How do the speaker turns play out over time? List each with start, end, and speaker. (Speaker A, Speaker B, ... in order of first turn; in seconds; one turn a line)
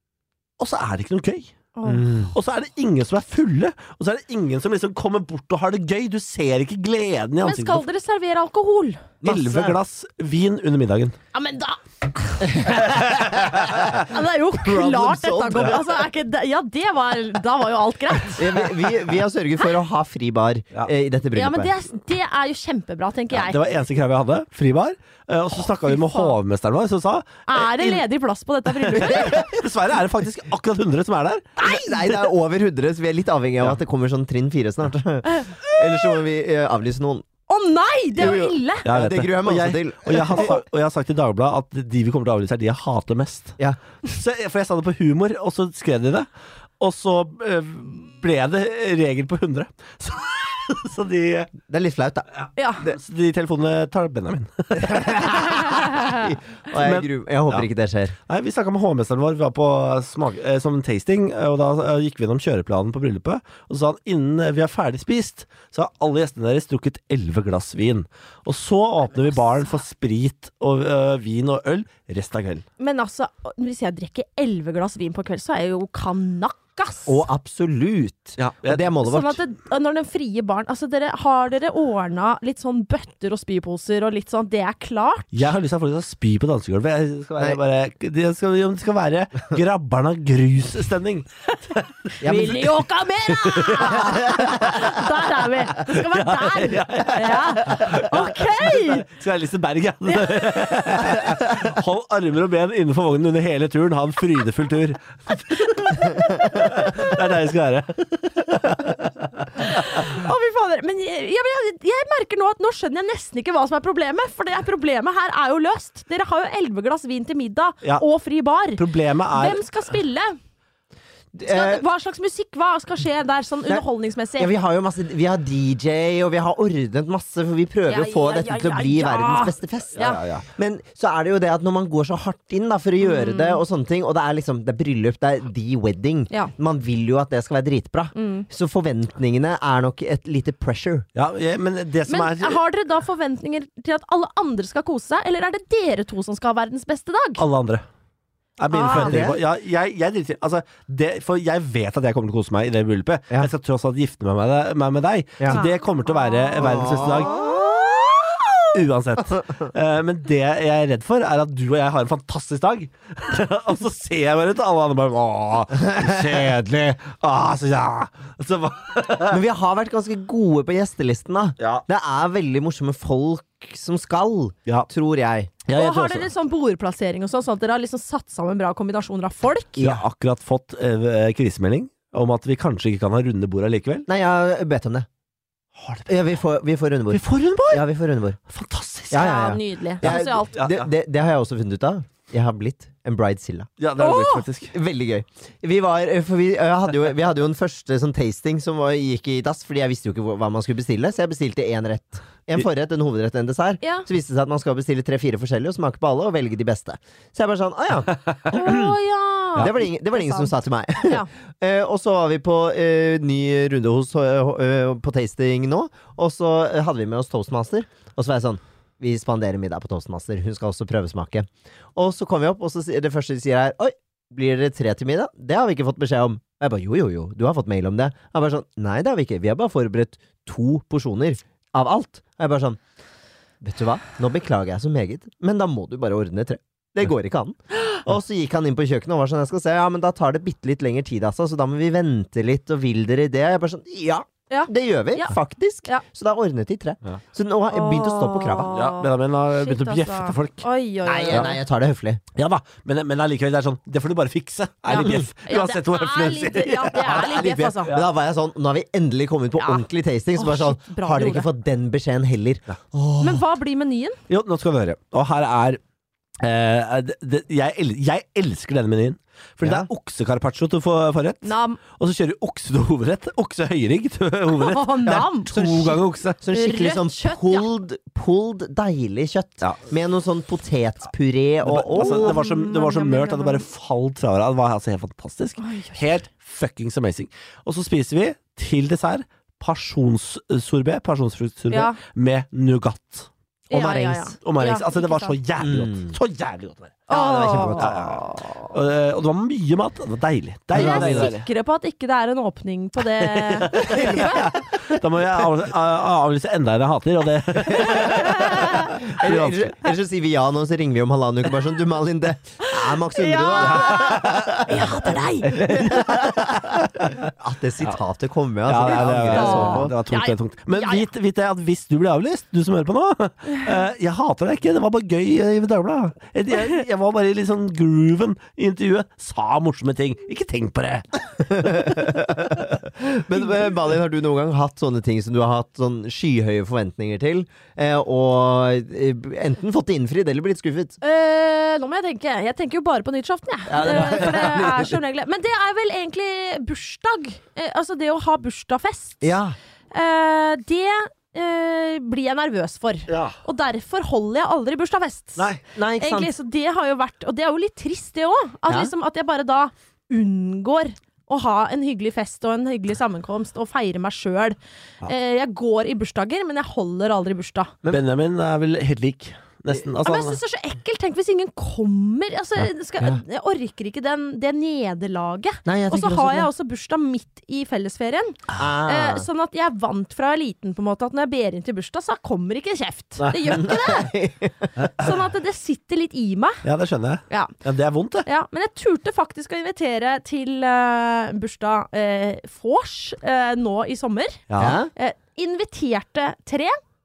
Speaker A: 0.6-7.8
Speaker B: 1.8-2.1
Speaker B: 7.4-9.1
Speaker A: 9.2-11.2
Speaker C: 9.2-9.8
Speaker B: 11.3-18.7
Speaker C: 12.4-15.9
Speaker A: 12.8-13.9
Speaker C: 18.4-21.7
Speaker B: 21.3-23.6
Speaker A: 23.3-28.1
Speaker B: 25.9-26.4
Speaker B: 27.5-29.5
Speaker A: 28.7-31.6
Speaker B: 31.6-31.9
Speaker C: 31.6-37.3
Speaker B: 35.3-36.2
Speaker B: 37.5-38.9
Speaker C: 38.1-40.6
Speaker A: 38.9-46.3
Speaker A: 46.8-51.5
Speaker C: 51.7-52.3
Speaker A: 52.5-57.7
Speaker B: 52.6-52.9
Speaker C: 54.8-58.2
Speaker B: 55.6-56.2
Speaker A: 58.3-72.7
Speaker B: 72.8-77.2
Speaker C: 77.1-79.4
Speaker A: 78.4-78.9
Speaker B: 79.0-85.3
Speaker A: 85.3-92.1
Speaker B: 92.2-99.1
Speaker C: 92.2-92.8
Speaker A: 93.4-94.1
Speaker C: 94.0-94.8
Speaker A: 95.8-109.7
Speaker B: 100.1-101.0
Speaker B: 106.0-107.2
Speaker B: 109.6-120.4
Speaker A: 118.8-119.6
Speaker C: 121.3-121.8
Speaker B: 121.5-124.5
Speaker C: 124.4-141.1
Speaker B: 127.9-130.2
Speaker A: 130.0-130.5
Speaker B: 133.0-133.6
Speaker B: 138.2-138.5
Speaker A: 141.2-142.6
Speaker B: 142.1-147.4
Speaker A: 147.4-147.8
Speaker A: 148.6-157.4
Speaker B: 148.7-149.2
Speaker C: 148.9-149.4
Speaker B: 155.5-156.4
Speaker C: 156.6-157.5
Speaker B: 157.3-158.2
Speaker A: 158.7-169.4
Speaker C: 169.3-175.6
Speaker A: 175.7-176.3
Speaker B: 175.7-179.8
Speaker C: 179.8-180.0
Speaker A: 179.8-184.1
Speaker C: 184.1-185.1
Speaker A: 185.8-186.1
Speaker C: 186.1-188.4
Speaker A: 187.1-187.8
Speaker A: 188.5-189.4
Speaker C: 189.1-193.7
Speaker B: 189.1-190.5
Speaker A: 190.0-190.9
Speaker A: 193.8-194.7
Speaker B: 194.0-194.4
Speaker C: 194.7-209.0
Speaker B: 203.8-204.1
Speaker B: 208.5-211.3
Speaker C: 209.6-232.8
Speaker C: 233.6-248.8
Speaker B: 244.5-246.0
Speaker B: 247.7-251.6
Speaker A: 248.7-250.7
Speaker C: 251.1-252.2
Speaker A: 252.3-258.1
Speaker B: 254.9-257.9
Speaker C: 254.9-255.2
Speaker C: 257.2-263.4
Speaker B: 259.6-259.9
Speaker B: 260.4-261.5
Speaker B: 263.2-264.2
Speaker A: 264.3-265.8
Speaker A: 266.4-276.4
Speaker C: 269.6-269.9
Speaker B: 271.4-271.8
Speaker B: 274.6-275.9
Speaker C: 275.1-282.4
Speaker B: 276.5-277.7
Speaker A: 281.6-293.3
Speaker B: 281.9-283.6
Speaker B: 285.6-286.0
Speaker B: 291.7-292.0
Speaker B: 293.7-295.4
Speaker C: 293.7-294.4
Speaker A: 294.4-297.0
Speaker C: 295.6-296.1
Speaker B: 297.1-298.7
Speaker C: 297.1-298.0
Speaker A: 297.6-301.5
Speaker C: 300.7-301.3
Speaker B: 300.8-304.6
Speaker A: 303.1-309.8
Speaker C: 303.8-304.6
Speaker C: 307.7-319.9
Speaker B: 307.7-308.9
Speaker B: 312.6-315.7
Speaker A: 313.6-314.6
Speaker A: 315.4-317.2
Speaker A: 318.7-331.9
Speaker B: 318.9-321.1
Speaker C: 331.4-341.0
Speaker B: 341.0-349.3
Speaker C: 343.7-345.0
Speaker A: 343.8-344.4
Speaker C: 349.2-349.6
Speaker B: 349.9-367.7
Speaker A: 353.1-353.4
Speaker C: 355.8-356.3
Speaker C: 358.7-358.9
Speaker A: 367.9-370.4
Speaker B: 370.0-384.2
Speaker C: 375.7-376.5
Speaker C: 378.6-379.3
Speaker A: 383.2-383.6
Speaker C: 383.6-384.7
Speaker A: 384.8-385.1
Speaker B: 384.9-386.6
Speaker A: 386.6-388.3
Speaker B: 388.2-396.8
Speaker A: 394.5-394.8
Speaker C: 394.6-394.9